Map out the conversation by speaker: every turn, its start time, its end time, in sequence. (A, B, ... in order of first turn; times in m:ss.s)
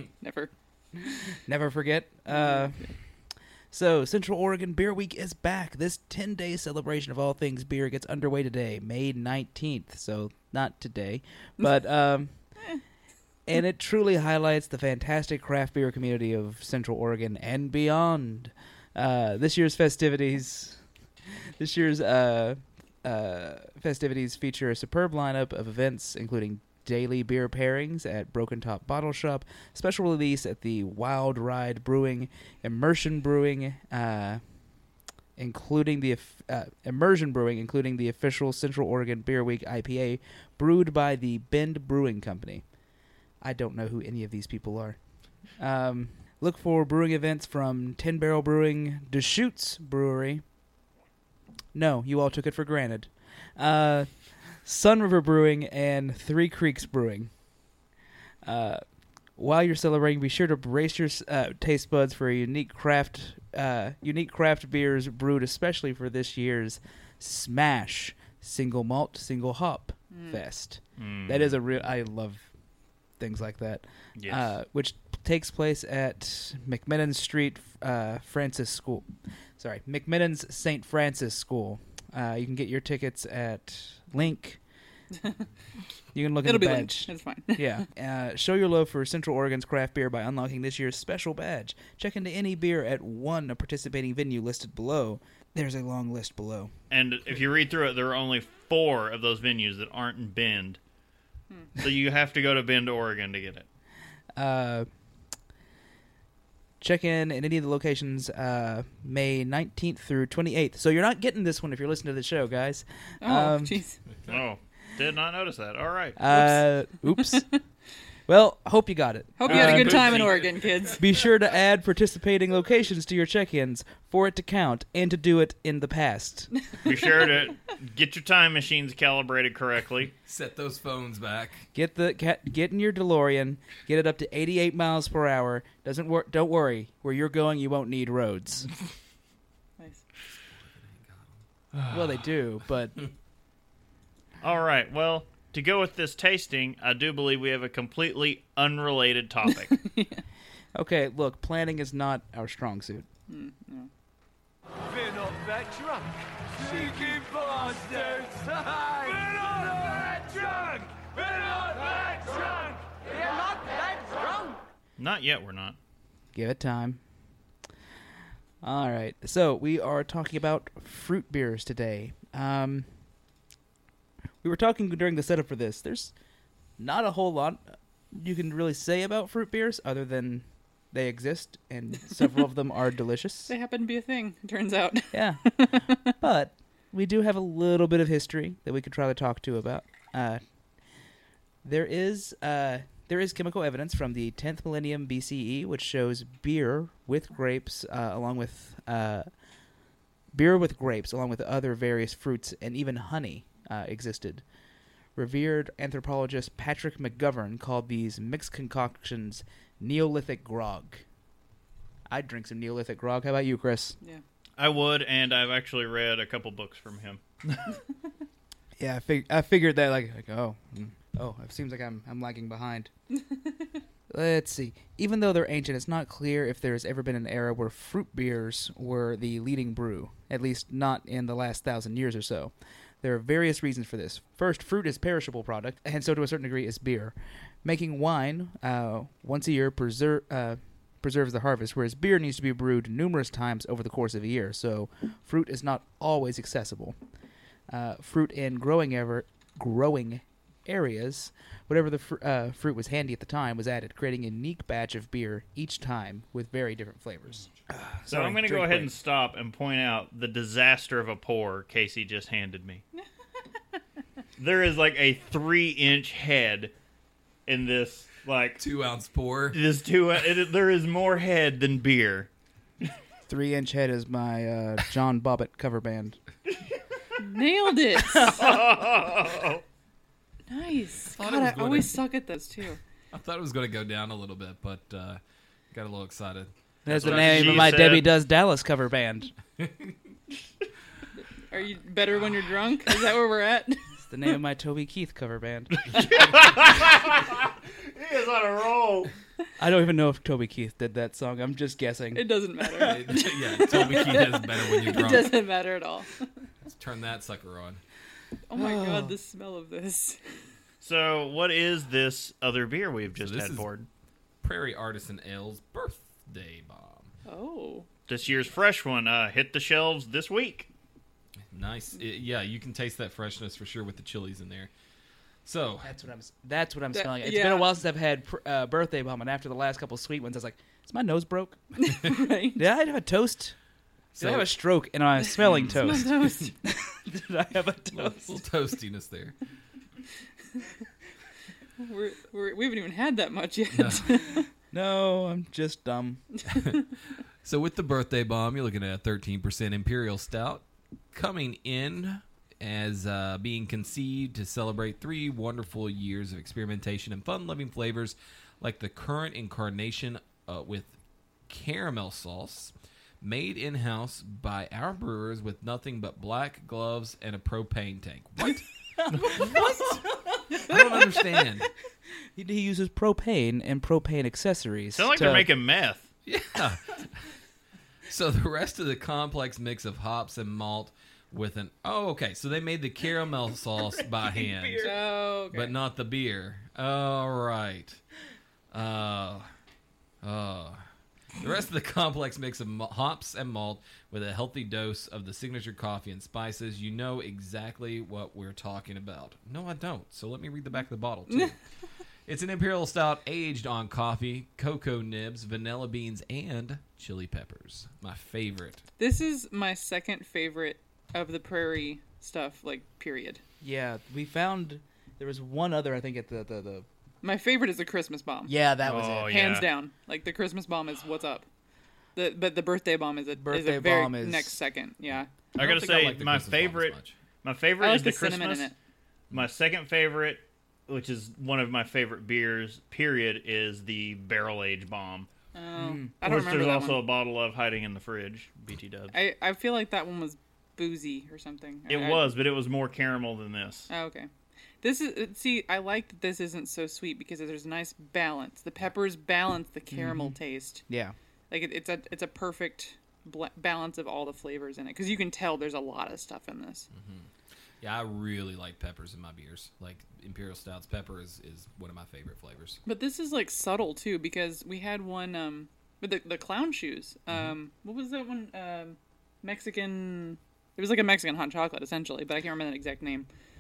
0:00.2-0:01.4 A
0:01.4-0:12.8 B
0:02.3-0:03.0 A
0:13.5-0:34.6 B
0:35.4-0:42.7 B
0:43.4-0:50.4 B
0:51.7-0:57.5 B
0:58.4-1:12.6 B
1:10.1-1:10.4 A
1:11.0-1:11.6 C
1:13.1-1:24.6 B
1:14.2-1:14.6 C
1:26.1-1:36.7 B
1:26.4-1:27.8 A
1:36.9-1:40.8 C
1:41.8-1:43.7 C
1:44.4-1:44.9 B
1:46.8-1:53.8 B
1:53.2-1:54.0 A
1:54.1-1:54.4 D
1:54.3-1:56.2 C
1:56.2-1:57.8 B
1:56.3-1:57.6 A
1:58.3-2:00.4 B
1:59.4-2:01.3 A
1:59.5-2:01.3 D
2:01.0-2:06.7 B
2:06.8-2:10.1 C
2:10.2-2:11.7 D
2:11.7-2:18.7 B
2:19.8-2:20.1 A
2:20.5-2:21.3 D
2:21.7-2:22.1 C
2:21.9-2:23.0 B
2:24.4-2:29.8 C
2:29.7-2:30.2 A
2:30.8-2:33.1 B
2:33.3-2:33.9 A
2:34.8-2:44.6 E
2:45.0-2:45.8 C
2:46.3-2:47.0 B
2:48.6-2:53.0 B
2:54.4-2:56.2 B
2:56.8-3:03.5 B
3:03.5-3:06.1 A
3:05.1-3:10.4 B
3:11.6-3:19.3 B
3:20.3-3:24.4 B
3:25.2-3:31.0 B
3:32.1-3:34.0 B
3:34.6-3:37.8 C
3:38.8-3:42.9 B
3:44.1-4:07.0 B
4:07.7-4:18.9 B
4:18.1-4:22.8 C
4:24.4-4:26.7 C
4:27.5-4:28.6 C
4:28.6-4:29.6 D
4:29.5-4:32.3 C
4:33.3-4:36.2 B
4:37.2-4:38.4 A
4:38.0-4:38.6 B
4:38.3-4:39.6 C
4:40.5-4:42.8 A
4:41.1-4:42.0 D
4:43.1-4:45.2 D
4:45.7-4:47.9 D
4:46.8-4:49.3 B
4:46.9-4:48.2 C
4:49.6-4:50.0 D
4:51.2-4:54.0 A
4:54.0-4:56.1 B
4:55.9-4:59.1 C
4:55.9-4:56.7 D
4:59.6-5:03.2 B
5:02.1-5:06.5 A
5:02.8-5:05.4 D
5:03.8-5:04.2 B
5:06.6-5:07.8 D
5:08.5-5:10.5 A
5:08.6-5:09.1 B
5:10.8-5:13.9 C
5:13.2-5:13.7 D
5:14.4-5:17.1 D
5:17.2-5:17.9 A
5:18.1-5:20.7 C
5:21.5-5:24.7 D
5:25.4-5:25.9 D
5:25.8-5:33.6 B
5:26.9-5:27.7 A
5:31.8-5:32.6 A
5:34.2-5:34.5 D
5:34.2-5:38.4 B
5:35.2-5:36.6 A
5:35.4-5:35.8 C
5:37.9-5:39.4 D
5:41.8-5:44.5 A
5:43.7-5:44.0 D
5:44.7-5:46.3 B
5:46.6-6:11.7 D
6:09.0-6:11.4 B
6:12.4-6:15.5 B
6:15.0-6:16.1 C
6:16.2-6:17.3 D
6:18.1-6:28.0 D
6:24.2-6:24.9 B
6:24.8-6:25.7 A
6:28.7-6:29.5 D
6:30.2-6:30.8 D
6:31.4-6:48.8 D
6:41.3-6:41.5 A
6:49.0-6:53.4 A
6:53.6-6:56.9 B
6:57.2-6:58.5 A
6:58.5-6:59.4 B
6:58.8-6:59.7 C
6:59.3-7:01.5 A
7:02.2-7:05.3 A
7:03.4-7:04.6 B
7:05.5-7:08.7 C
7:05.6-7:07.1 D
7:07.8-7:08.8 A
7:09.3-7:15.3 C
7:15.5-7:17.0 A
7:15.8-7:16.1 B
7:16.2-7:19.2 C
7:19.1-7:22.3 A
7:21.9-7:23.9 C
7:23.9-7:24.3 A
7:24.8-7:30.8 A
7:29.9-7:30.4 B
7:30.9-7:31.2 B
7:31.5-7:36.9 A
7:36.9-7:42.8 D
7:42.9-7:53.3 A